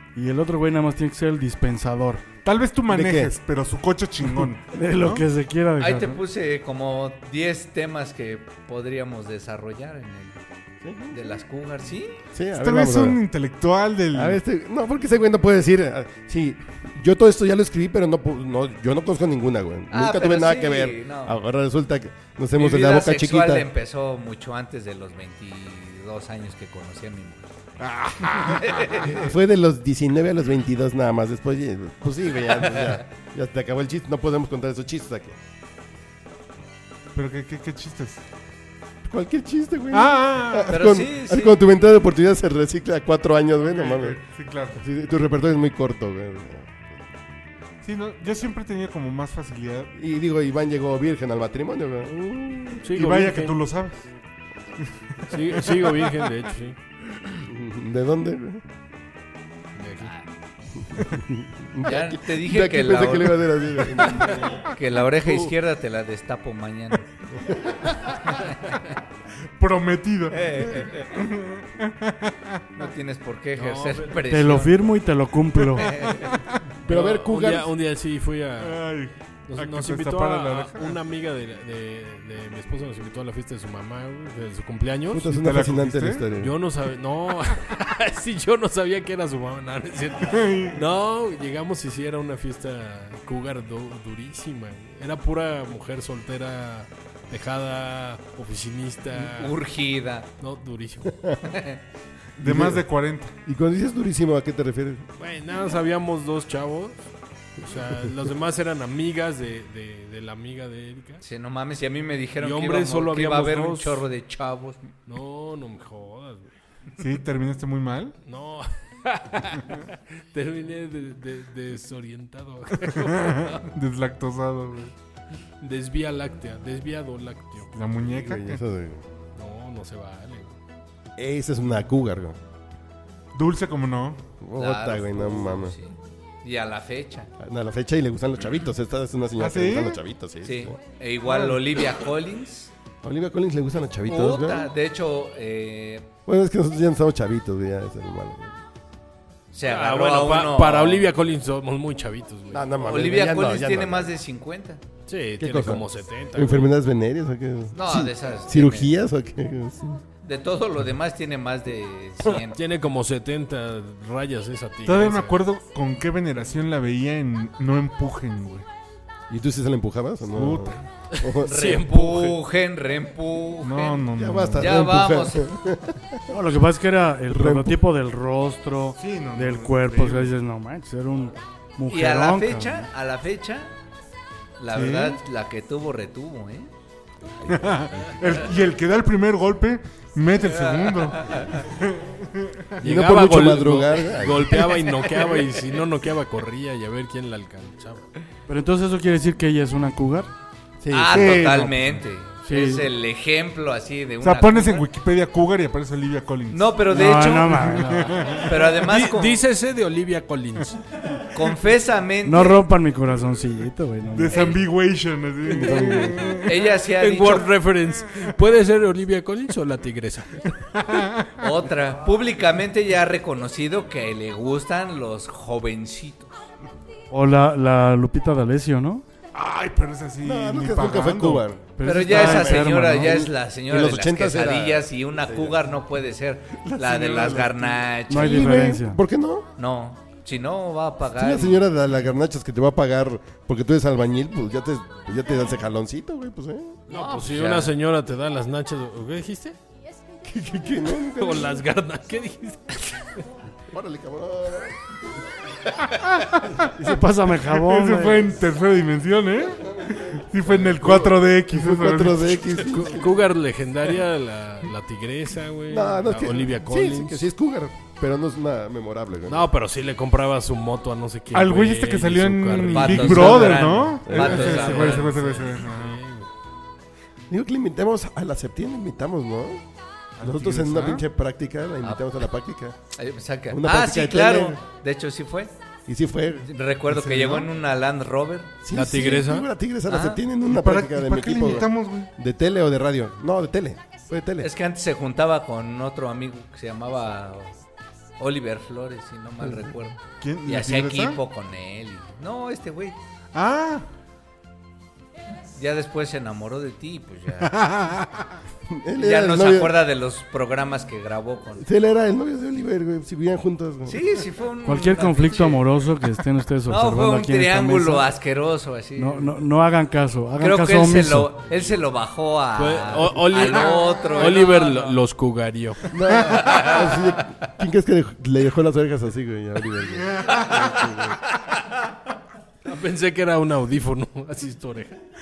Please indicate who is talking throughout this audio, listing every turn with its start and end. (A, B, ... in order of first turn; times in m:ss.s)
0:00.1-0:02.2 A
0:02.4-0:05.2 B
0:02.9-0:03.3 C
0:04.2-0:06.2 A
0:05.8-0:10.4 D
0:10.8-0:11.3 C
0:11.1-0:12.2 D
0:12.3-0:13.2 C
0:12.6-0:14.4 B
0:14.1-0:23.7 C
0:19.9-0:21.4 D
0:22.6-0:27.5 D
0:27.8-0:29.0 B
0:28.3-0:29.2 D
0:29.1-0:35.4 C
0:37.1-0:38.2 B
0:39.0-0:44.2 C
0:39.9-0:40.8 B
0:40.7-0:41.6 D
0:43.6-0:44.8 B
0:44.8-0:47.0 C
0:47.8-0:49.9 B
0:49.9-0:52.8 C
0:52.1-0:53.6 E
0:52.9-0:54.0 B
0:55.3-0:56.8 E
0:57.4-0:58.6 C
0:59.8-1:00.1 E
1:00.9-1:04.6 C
1:01.8-1:07.1 D
1:07.4-1:07.9 C
1:09.6-1:12.6 B
1:10.3-1:11.1 D
1:12.8-1:14.8 D
1:13.5-1:14.4 E
1:14.3-1:15.9 A
1:15.7-1:16.6 B
1:15.8-1:16.3 D
1:16.8-1:17.7 C
1:16.8-1:18.8 E
1:18.6-1:21.0 B
1:19.5-1:25.3 E
1:25.1-1:26.5 C
1:25.3-1:26.3 B
1:26.4-1:39.5 E
1:30.3-1:30.8 B
1:39.1-1:40.3 D
1:40.4-1:41.3 E
1:41.5-1:41.8 D
1:42.4-1:43.3 B
1:42.4-1:42.8 C
1:43.4-1:45.0 C
1:45.2-1:47.0 E
1:47.6-1:51.2 E
1:51.2-1:54.8 D
1:52.4-1:54.0 E
1:55.0-1:56.5 E
1:57.0-1:58.2 B
1:58.2-2:03.6 E
2:02.9-2:04.9 B
2:05.6-2:07.7 E
2:07.7-2:08.6 B
2:08.1-2:09.0 C
2:09.3-2:10.6 E
2:11.2-2:12.4 C
2:13.3-2:14.2 B
2:14.4-2:15.8 C
2:14.6-2:17.3 D
2:17.4-2:20.8 C
2:19.4-2:20.0 B
2:20.4-2:22.7 D
2:21.2-2:21.6 B
2:23.0-2:24.7 C
2:24.0-2:26.1 D
2:26.3-2:28.6 C
2:29.5-2:31.1 D
2:29.6-2:32.7 E
2:32.5-2:34.1 C
2:32.8-2:34.8 D
2:35.1-2:36.7 E
2:35.4-2:40.0 C
2:37.7-2:38.9 D
2:40.2-2:42.6 D
2:42.5-2:45.4 E
2:44.8-2:48.6 B
2:49.3-2:51.5 C
2:50.3-2:50.8 B
2:51.1-2:52.4 E
2:51.4-2:54.0 D
2:53.6-2:54.7 B
2:54.1-2:56.2 C
2:54.6-2:55.5 D
2:56.3-3:02.9 A
2:57.3-2:57.8 C
2:59.0-3:00.3 B
3:01.9-3:03.7 D
3:04.6-3:06.7 D
3:04.7-3:05.2 B
3:07.5-3:12.8 B
3:10.4-3:11.6 D
3:12.8-3:14.7 C
3:12.8-3:18.0 E
3:18.5-3:20.3 A
3:20.8-3:21.7 C
3:20.9-3:24.8 D
3:21.1-3:21.9 B
3:22.4-3:22.9 A
3:24.2-3:26.8 B
3:26.5-3:27.7 D
3:26.9-3:28.3 A
3:27.4-3:28.7 B
3:28.3-3:29.4 D
3:28.8-3:30.8 E
3:31.3-3:32.6 D
3:32.2-3:34.5 A
3:34.1-3:36.6 B
3:34.3-3:34.6 D
3:35.6-3:36.1 E
3:36.4-3:37.5 D
3:36.6-3:40.6 E
3:40.8-3:41.3 B
3:41.4-3:46.5 D
3:47.1-3:49.0 A
3:49.3-3:51.5 B
3:50.2-3:55.6 C
3:51.8-3:53.2 A
3:51.8-3:58.5 D
3:56.6-3:57.8 B
3:58.1-3:59.0 A
3:58.1-3:59.5 C
3:59.6-4:01.7 D
4:01.1-4:06.8 C
4:06.9-4:07.7 D
4:06.9-4:09.6 E
4:10.2-4:11.6 C
4:11.0-4:13.1 E
4:13.7-4:14.8 C
4:15.9-4:16.6 B
4:16.8-4:18.3 A
4:17.5-4:22.6 B
4:20.5-4:23.2 C
4:22.6-4:27.3 E
4:25.7-4:29.5 C
4:29.3-4:36.3 E
4:31.3-4:36.0 B
4:32.6-4:35.1 D
4:34.0-4:34.5 C
4:37.3-4:39.6 C
4:40.2-4:41.0 B
4:40.2-4:42.8 C
4:41.8-4:42.1 D
4:43.0-4:45.5 D
4:43.5-4:44.6 C
4:45.9-4:47.4 C
4:46.4-4:48.6 D
4:48.6-4:54.5 C
4:48.7-4:49.5 E
4:49.9-4:50.2 D
4:50.5-4:52.1 B
4:54.4-4:57.5 D
4:58.2-5:03.0 D
5:00.2-5:01.2 B
5:03.3-5:03.8 B
5:05.5-5:07.5 D
5:07.4-5:08.4 B
5:08.7-5:09.8 C
5:09.0-5:11.6 D
5:11.6-5:14.0 C
5:13.9-5:15.6 D
5:14.6-5:18.0 A
5:16.7-5:19.4 D
5:19.0-5:21.3 A
5:20.4-5:25.0 D
5:22.6-5:25.9 E
5:25.9-5:31.1 C
5:26.2-5:27.2 D
5:30.0-5:30.7 B
5:31.4-5:31.7 D
5:32.6-5:35.0 E